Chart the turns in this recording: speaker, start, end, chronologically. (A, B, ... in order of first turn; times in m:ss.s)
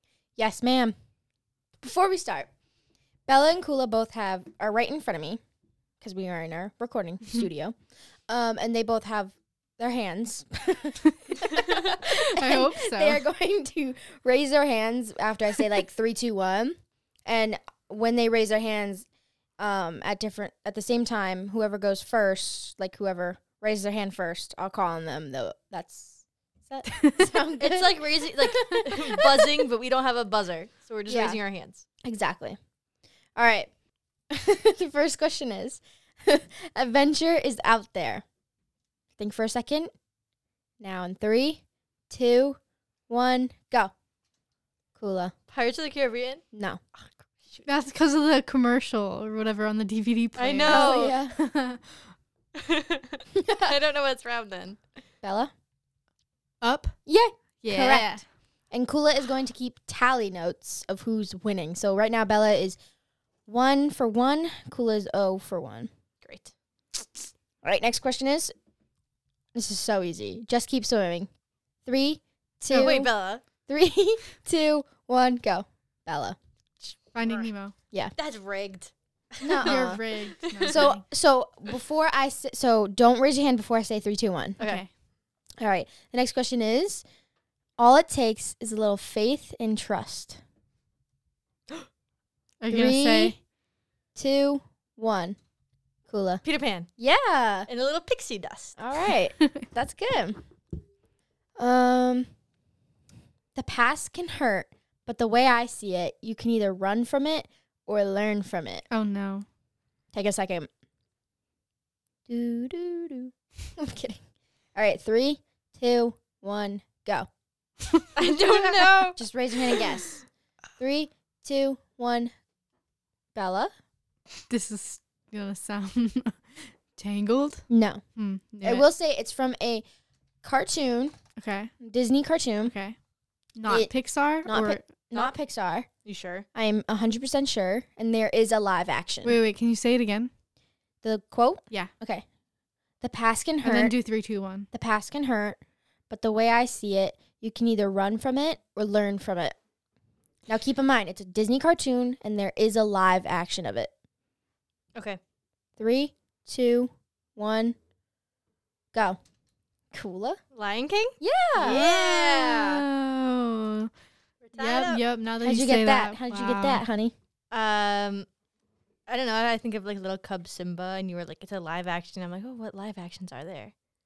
0:00.4-0:00.9 A
0:01.8-0:02.5 A
0:03.3-0:05.4 A
0:06.0-0:07.8 A
0:08.3-0:19.0 A
0:11.1-0:13.2 B
0:19.6-0:29.7 A
0:26.9-0:27.2 B
0:27.6-0:31.8 C
0:31.1-0:31.4 A
0:32.0-0:32.6 A
0:33.4-0:33.7 A
0:34.3-0:38.2 A
0:39.2-0:39.9 A
0:40.8-0:43.9 A
0:45.0-0:45.3 A
0:45.5-0:46.4 C
0:46.5-0:46.8 A
0:46.9-0:47.7 C
0:47.6-0:52.0 B
0:50.4-0:51.2 C
0:50.6-0:51.4 A
0:52.5-0:54.8 C
0:53.3-0:53.8 A
0:55.2-0:55.5 A
0:56.6-0:57.0 B
0:57.1-0:58.2 A
0:57.6-0:58.2 B
0:58.7-1:02.8 A
1:03.5-1:05.9 A
1:06.2-1:06.5 C
1:07.6-1:08.5 A
1:09.5-1:11.3 A
1:11.8-1:13.1 A
1:12.7-1:13.4 C
1:13.7-1:16.4 A
1:17.1-1:17.7 B
1:17.2-1:17.5 C
1:18.2-1:19.9 C
1:19.4-1:20.0 A
1:19.6-1:21.0 B
1:20.7-1:24.6 A
1:24.6-1:24.9 B
1:25.6-1:27.0 A
1:27.8-1:30.4 A
1:32.6-1:33.4 B
1:32.7-1:33.4 A
1:34.1-1:35.4 A
1:36.1-1:36.4 A
1:36.4-1:36.9 C
1:37.0-1:37.7 A
1:37.7-1:38.8 C
1:38.8-1:40.4 A
1:41.6-1:42.3 A
1:43.5-1:48.8 A
1:48.9-1:49.4 B
1:50.1-1:50.7 A
1:52.3-1:54.2 A
1:54.7-1:57.3 A
1:58.2-1:59.2 C
1:59.2-2:00.2 A
2:00.8-2:02.3 A
2:03.3-2:03.7 A
2:04.5-2:07.6 B
2:07.7-2:08.0 A
2:08.2-2:08.8 B
2:08.6-2:09.8 A
2:10.4-2:11.2 A
2:11.4-2:11.7 B
2:11.8-2:12.7 A
2:12.6-2:13.0 B
2:13.6-2:14.8 B
2:14.4-2:15.9 A
2:16.0-2:16.4 C
2:16.5-2:19.4 A
2:19.2-2:20.3 B
2:21.0-2:22.2 A
2:23.0-2:23.9 A
2:23.6-2:24.7 B
2:24.7-2:25.6 A
2:26.1-2:29.6 A
2:30.5-2:33.9 A
2:35.8-2:37.8 A
2:38.9-2:39.2 A
2:39.9-2:40.4 A
2:40.5-2:42.8 C
2:41.2-2:41.9 A
2:41.7-2:43.9 B
2:44.4-2:45.0 C
2:44.6-2:46.8 B
2:45.4-2:47.1 A
2:47.5-2:48.2 C
2:49.1-2:53.7 C